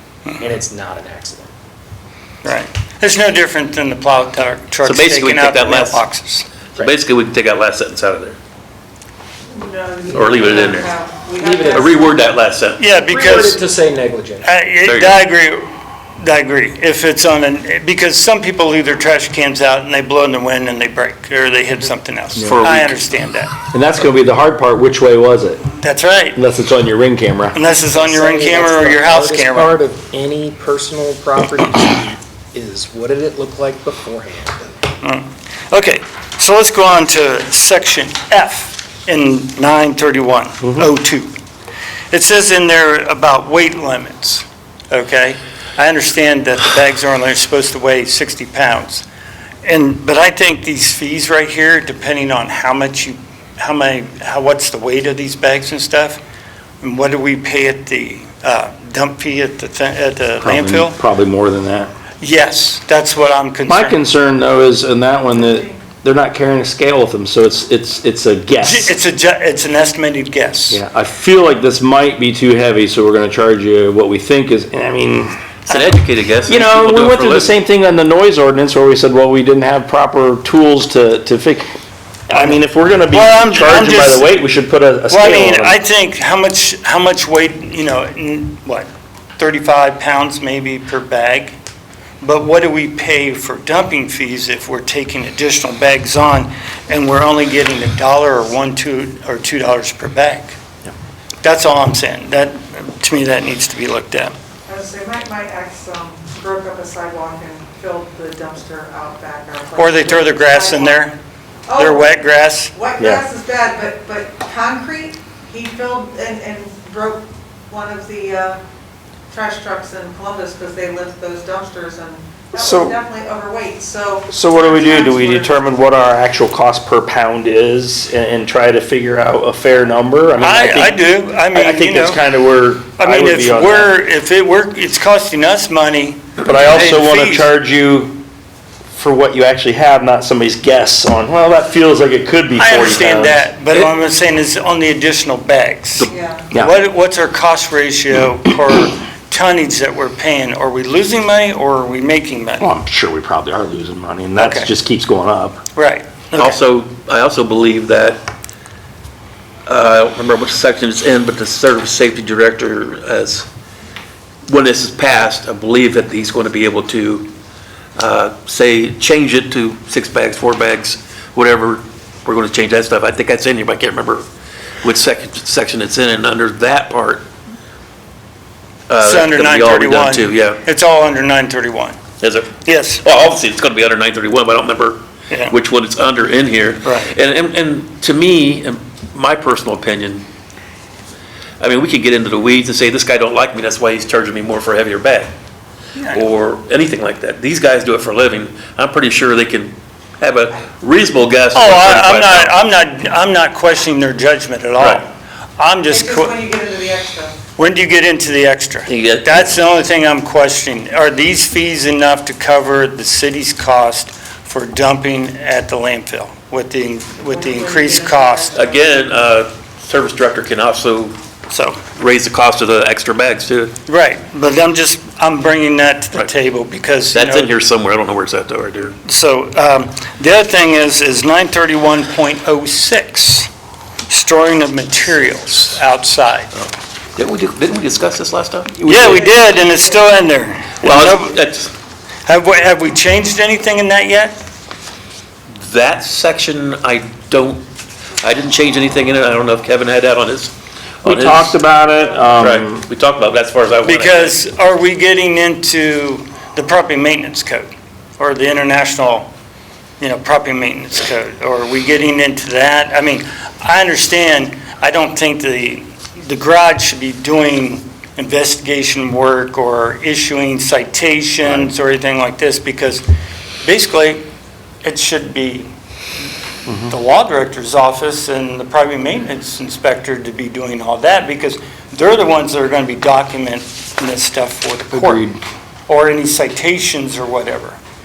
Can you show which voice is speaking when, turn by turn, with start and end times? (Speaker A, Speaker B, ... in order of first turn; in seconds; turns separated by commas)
Speaker A: 0.4-1.5, Speaker B: 2.4-6.5, Speaker C: 4.8-6.0, Speaker C: 6.7-8.4, Speaker D: 9.5-12.3, Speaker C: 10.1-10.9, Speaker A: 11.4-12.0, Speaker C: 11.7-12.8, Speaker B: 12.8-13.6, Speaker A: 13.0-14.5, Speaker B: 14.4-23.5, Speaker C: 14.8-15.2, Speaker C: 22.4-23.0, Speaker E: 23.6-25.6, Speaker B: 25.8-26.4, Speaker E: 26.4-27.6, Speaker B: 27.5-29.8, Speaker A: 27.9-34.7, Speaker B: 35.0-41.3, Speaker B: 42.1-49.0, Speaker B: 49.6-56.2, Speaker B: 56.8-61.0, Speaker E: 60.4-61.9, Speaker B: 62.2-64.0, Speaker E: 63.7-68.9, Speaker D: 65.3-65.8, Speaker B: 68.6-70.8, Speaker E: 70.7-75.3, Speaker C: 75.7-77.5, Speaker B: 75.7-76.0, Speaker E: 76.5-81.7, Speaker E: 82.3-85.8, Speaker B: 83.1-84.3, Speaker B: 85.1-91.6, Speaker B: 92.2-100.6, Speaker B: 101.4-104.3, Speaker D: 104.7-111.0, Speaker B: 109.7-111.2, Speaker D: 111.7-112.2, Speaker B: 111.7-112.7, Speaker D: 112.7-118.6, Speaker E: 113.0-113.2, Speaker D: 119.3-125.5, Speaker E: 122.5-122.9, Speaker E: 124.3-131.0, Speaker B: 130.4-132.2, Speaker E: 131.5-133.9, Speaker B: 133.0-137.5, Speaker E: 136.4-138.2, Speaker E: 138.9-143.4, Speaker B: 142.6-152.7, Speaker D: 146.1-146.4, Speaker E: 152.6-155.6, Speaker B: 154.4-154.7, Speaker B: 155.8-156.6, Speaker C: 156.3-158.2, Speaker C: 159.7-163.5, Speaker C: 164.5-167.3, Speaker C: 168.0-174.2, Speaker C: 174.8-177.3, Speaker C: 178.9-180.6, Speaker B: 179.0-182.0, Speaker C: 182.2-190.2, Speaker B: 182.7-183.1, Speaker B: 185.3-185.6, Speaker B: 186.8-187.1, Speaker C: 191.6-195.3, Speaker B: 195.9-196.3, Speaker C: 196.1-202.7, Speaker B: 201.5-206.4, Speaker D: 205.9-207.4, Speaker B: 207.6-218.6, Speaker C: 208.9-209.4, Speaker D: 217.2-219.0, Speaker C: 218.5-221.2, Speaker B: 221.5-221.8, Speaker C: 221.9-223.7, Speaker B: 223.9-227.5, Speaker C: 227.1-228.9, Speaker B: 229.0-233.5, Speaker B: 234.1-236.5, Speaker C: 236.6-239.3, Speaker B: 238.8-241.4, Speaker D: 239.3-240.0, Speaker C: 240.8-241.7, Speaker B: 242.2-244.4, Speaker C: 245.6-247.6, Speaker C: 248.2-251.5, Speaker E: 251.0-252.8, Speaker C: 252.4-254.4, Speaker B: 253.8-259.3, Speaker B: 260.0-273.0, Speaker B: 273.6-274.2, Speaker B: 274.8-275.7, Speaker B: 276.8-285.2, Speaker E: 284.9-285.4, Speaker B: 285.9-287.8